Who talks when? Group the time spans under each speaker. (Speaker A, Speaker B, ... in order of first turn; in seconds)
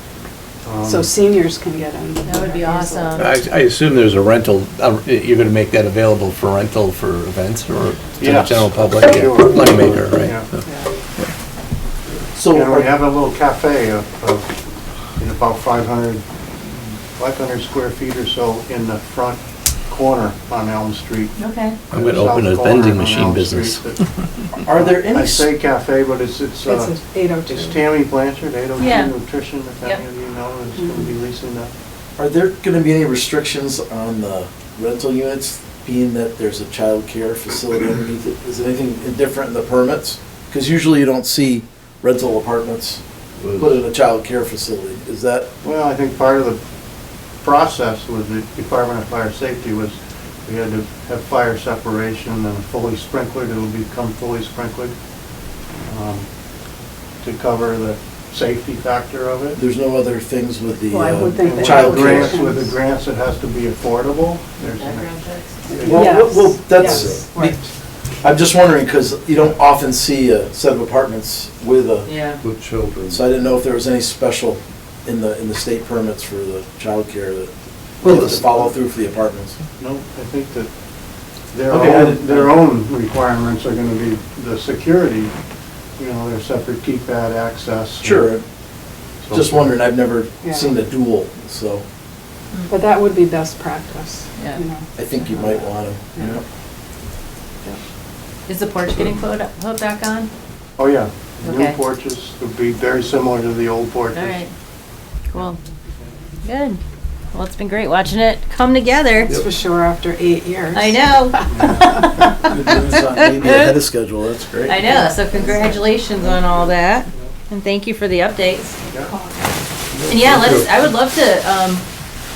Speaker A: 0.7-1.1, 8.2-10.5, 12.5-14.6, 15.2-16.2, 17.1-21.4, 21.9-24.0, 24.7-26.9, 27.5-31.7, 45.6-46.6, 47.4-55.0, 55.8-56.3, 57.2-59.6, 61.4-65.1, 65.7-66.2, 79.8-80.7, 81.5-85.3, 86.0-88.3, 89.2-89.7, 100.8-104.4, 111.5-112.4, 118.9-119.1
Speaker B: 0.8-3.2, 10.7-10.9, 26.7-27.9, 30.8-31.1, 60.9-62.7, 65.9-67.6, 90.4-90.7, 92.7-95.6, 109.2-111.1, 115.4-115.7, 119.0-119.5
Speaker C: 2.2-3.3, 21.4-21.8, 28.8-29.1, 64.8-65.8, 72.1-72.4, 94.4-94.6, 98.5-100.3, 101.4-101.8, 104.1-104.5, 105.3-105.6, 106.4-106.8, 107.3-109.4, 110.7-113.7, 114.6-118.8, 120.1-121.8
Speaker D: 3.2-10.6, 21.9-24.0, 78.0-78.7
Speaker E: 12.4-12.9, 24.6-25.5, 32.2-43.0, 43.6-45.5, 59.6-62.4, 65.8-67.7, 68.2-72.1, 73.1-77.5, 78.0-79.6, 81.7-82.6, 88.0-88.4, 89.3-91.8, 95.0-96.4, 112.5-114.8
Speaker F: 43.4-43.8, 65.7-66.0, 66.9-67.2, 72.4-73.4, 119.9-120.9